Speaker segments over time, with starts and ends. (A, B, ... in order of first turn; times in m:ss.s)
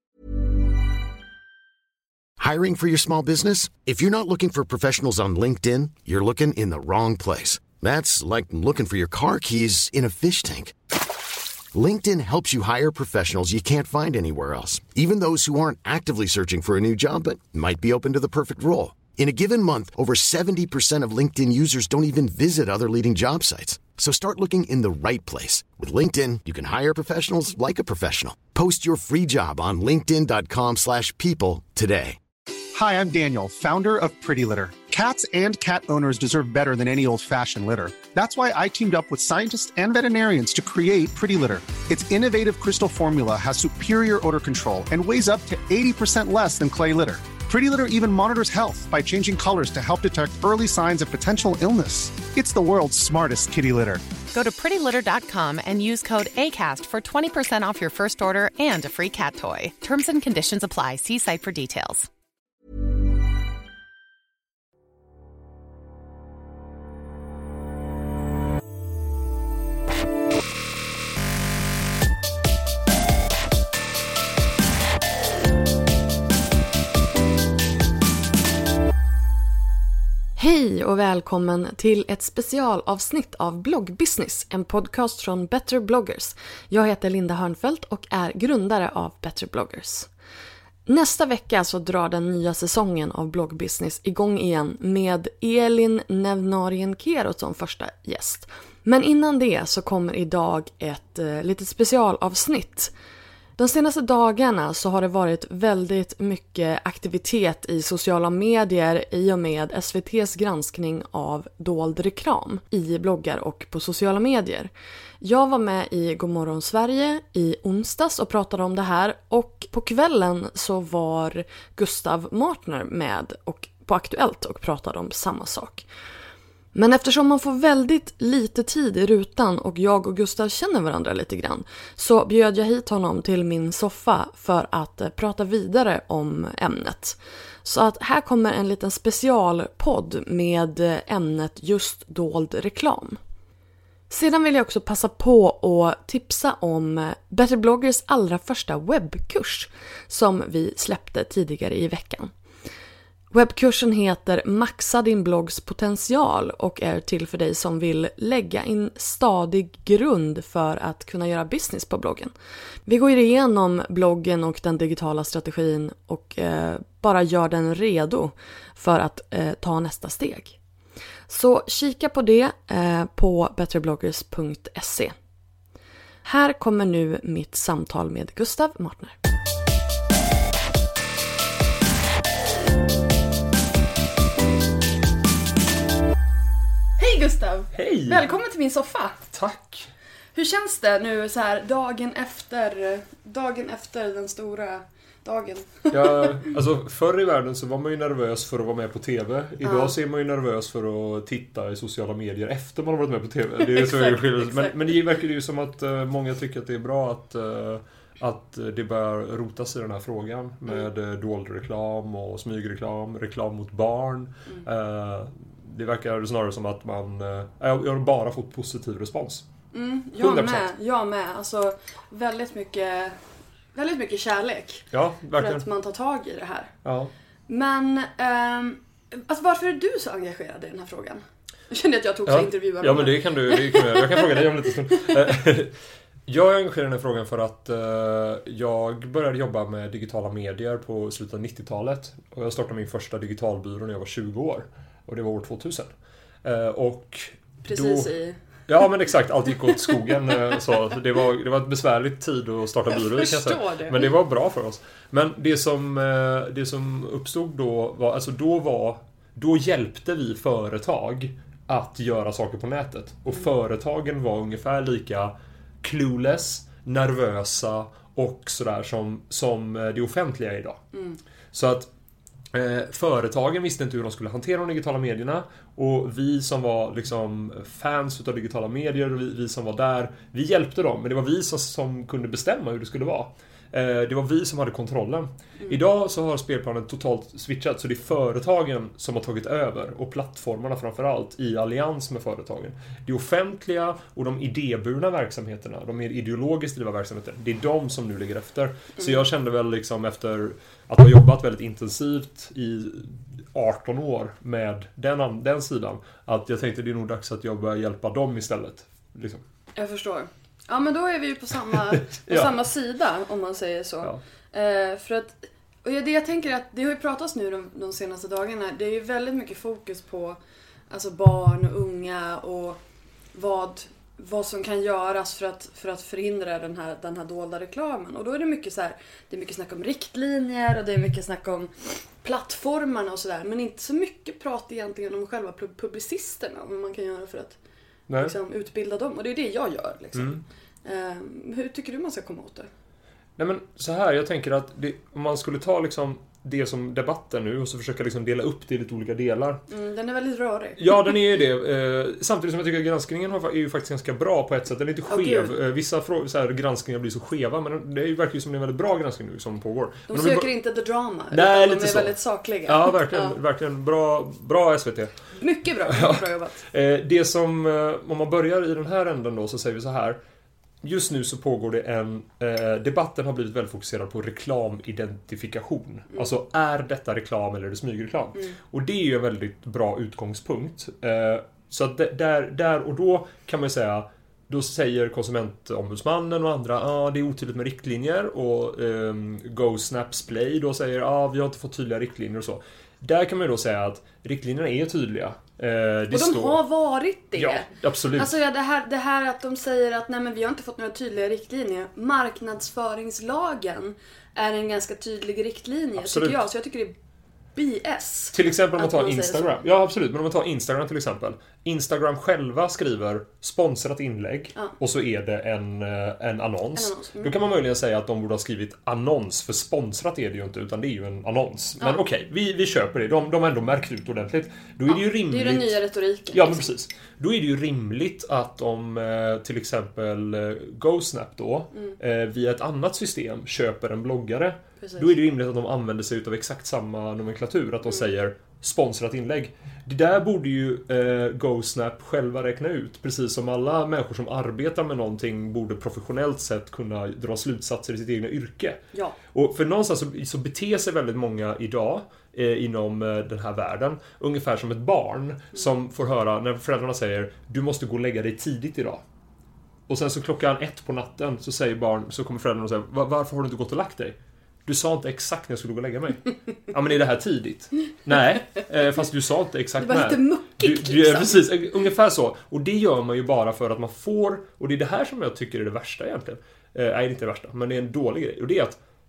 0:02.4-0:10.7 A
0:11.7-0:32.2 A
0:32.7-0:54.0 B
0:54.3-1:02.1 C
1:20.4-1:30.1 D
1:30.9-1:42.9 D
1:43.6-2:05.8 D
2:06.7-2:23.2 D
2:24.1-2:32.3 D
2:33.3-2:42.3 D
2:42.8-2:50.6 D
2:51.3-2:55.1 D
2:56.2-2:59.1 D
3:07.0-3:09.2 D
3:07.7-3:08.3 E
3:09.3-3:09.9 E
3:10.3-3:16.5 D
3:15.9-3:39.4 E
3:19.6-3:19.9 D
3:23.6-3:24.9 D
3:39.7-3:43.2 D
3:40.2-3:40.7 E
3:43.7-3:46.7 D
3:44.9-3:45.6 E
3:46.8-3:47.1 E
3:47.5-3:54.4 D
3:52.2-3:55.7 E
3:56.3-4:05.9 E
4:06.4-4:08.1 E
4:07.6-4:08.4 D
4:08.7-4:30.8 E
4:12.9-4:14.1 D
4:30.9-4:31.2 D
4:31.5-4:31.9 E
4:32.5-5:09.4 E
5:09.8-5:20.4 D
5:12.0-5:12.5 E
5:20.9-5:22.8 D
5:23.3-5:37.6 D
5:38.1-5:38.3 E
5:38.2-5:42.7 D
5:40.1-5:40.4 E
5:43.4-5:49.6 E
5:49.7-5:50.9 D
5:50.8-6:00.5 E
5:55.1-5:55.5 D
6:00.1-6:03.4 D
6:01.3-6:02.1 E
6:02.6-6:05.1 E
6:05.4-6:06.6 D
6:05.9-6:10.2 E
6:10.8-6:36.6 E
6:36.1-6:46.9 D
6:37.4-6:38.3 E
6:46.0-6:46.4 E
6:47.5-6:49.6 D
6:48.3-7:05.8 E
6:56.7-6:57.3 D
7:04.9-7:06.7 D
7:06.3-7:39.0 E
7:14.8-7:15.1 D
7:39.9-7:58.8 E
7:49.8-7:51.4 D